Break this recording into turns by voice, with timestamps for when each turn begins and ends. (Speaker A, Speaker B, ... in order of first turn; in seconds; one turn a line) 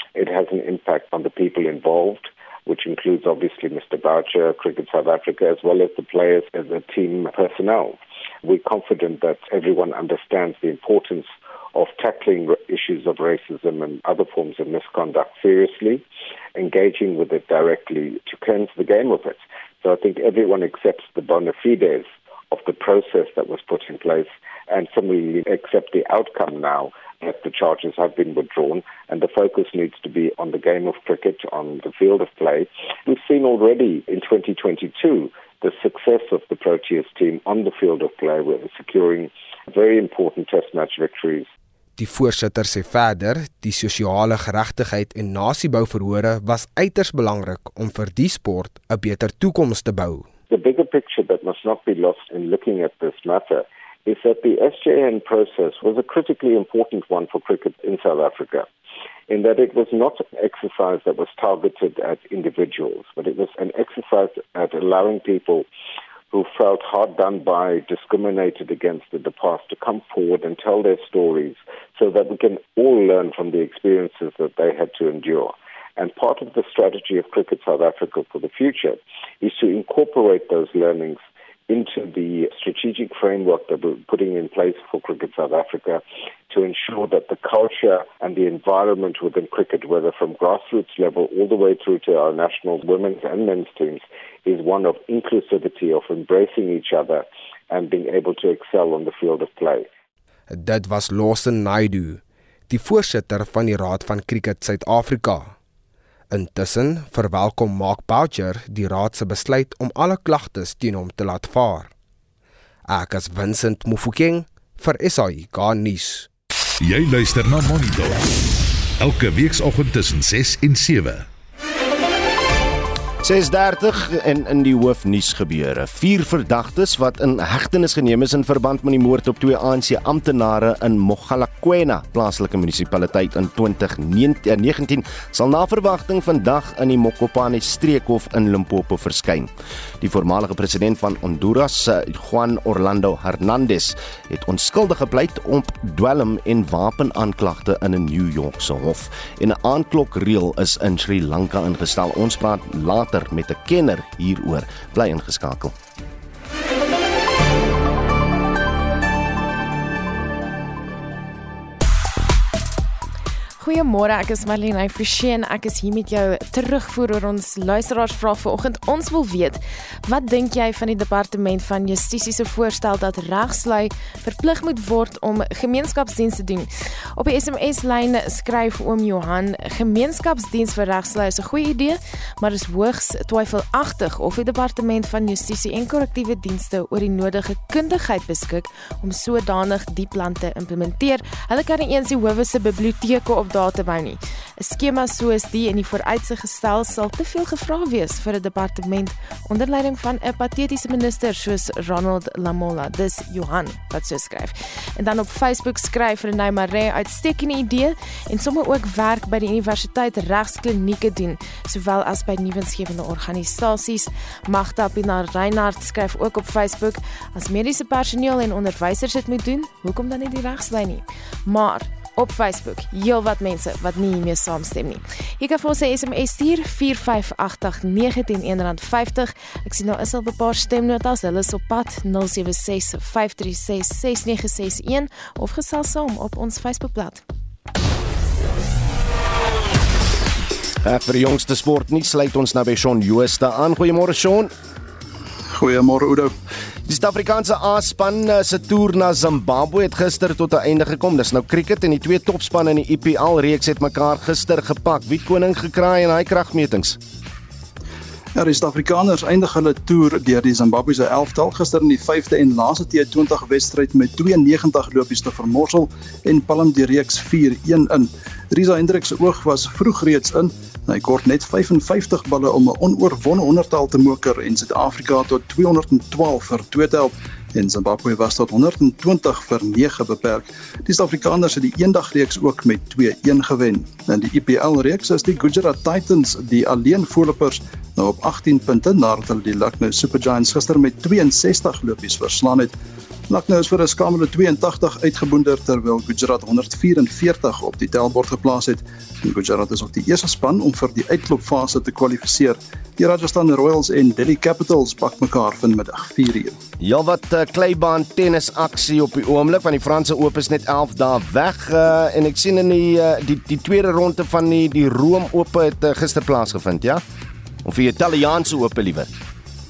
Speaker A: 0.1-16.0
Speaker A: 16.5-41.5
Speaker B: 42.0-50.3
Speaker A: 50.5-58.7
Speaker A: 59.3-65.6
Speaker A: 66.3-99.9
Speaker B: 100.5-105.5
Speaker B: 106.3-111.9
Speaker B: 112.9-116.3
Speaker C: 116.8-118.3
Speaker C: 119.0-121.2
Speaker D: 123.2-139.5
Speaker D: 140.0-155.7
Speaker E: 163.6-237.2
Speaker D: 240.8-244.5
Speaker F: 245.5-246.3
Speaker D: 246.9-257.0
Speaker F: 258.4-292.7
Speaker F: 293.3-306.5
Speaker D: 306.8-317.0
Speaker D: 317.6-319.1